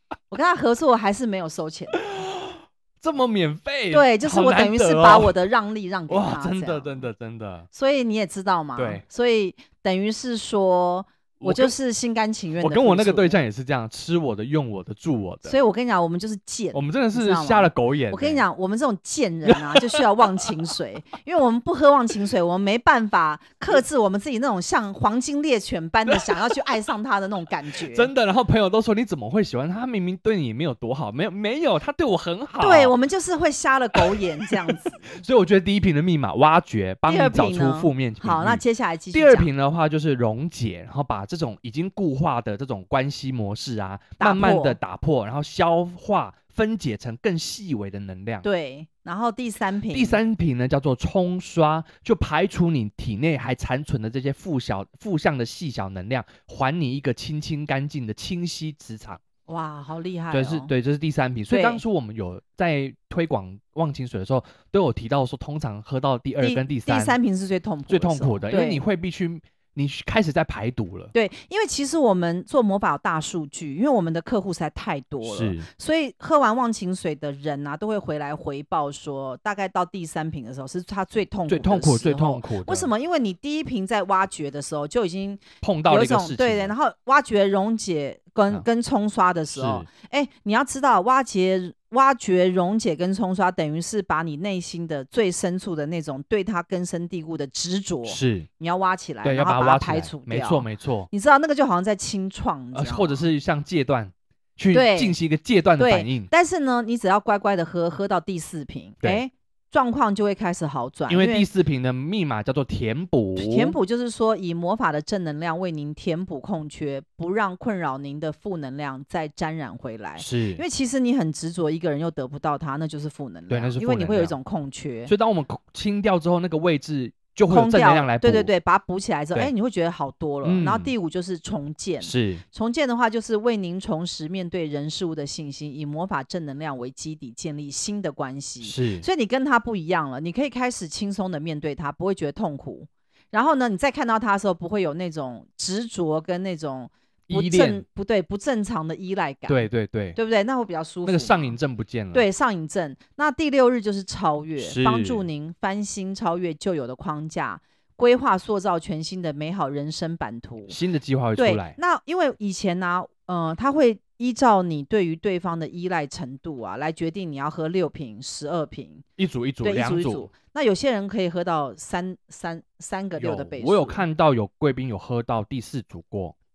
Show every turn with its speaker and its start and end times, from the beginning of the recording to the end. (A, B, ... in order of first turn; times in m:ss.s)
0:00.3-0:02.0 A
0:02.0-0:05.3 B
0:03.9-0:07.0 A
0:06.1-0:07.7 B
0:07.7-0:13.4 A
0:08.8-0:09.0 B
0:11.4-0:11.7 B
0:12.6-0:15.6 B
0:15.4-0:28.1 A
0:16.7-0:18.4 B
0:27.9-0:32.9 B
0:32.6-0:35.1 A
0:33.9-0:34.4 B
0:35.0-0:48.4 B
0:37.0-0:39.5 A
0:44.2-0:44.8 A
0:48.4-0:50.2 A
0:49.9-0:59.2 B
0:59.5-1:00.7 A
1:00.3-1:07.2 B
1:01.5-1:01.8 A
1:06.4-1:08.8 A
1:07.9-1:11.1 B
1:11.1-1:43.3 A
1:15.2-1:15.7 B
1:21.5-1:22.9 B
1:25.6-1:26.7 B
1:29.5-1:29.9 B
1:38.1-1:38.5 B
1:39.2-1:41.1 B
1:42.7-1:46.3 B
1:44.7-1:45.2 A
1:45.8-1:51.5 A
1:51.1-1:53.8 B
1:53.4-2:05.1 A
2:00.2-2:00.6 B
2:03.5-2:04.3 B
2:05.1-2:08.5 B
2:07.5-2:31.6 A
2:10.4-2:10.9 B
2:12.0-2:12.4 B
2:18.6-2:19.0 B
2:27.3-2:27.8 B
2:29.5-2:30.2 B
2:31.0-2:32.2 B
2:32.1-2:40.8 A
2:34.6-2:35.2 B
2:40.7-2:41.8 B
2:41.4-2:49.0 A
2:49.2-2:50.3 B
2:49.6-2:54.0 A
2:53.2-2:56.3 B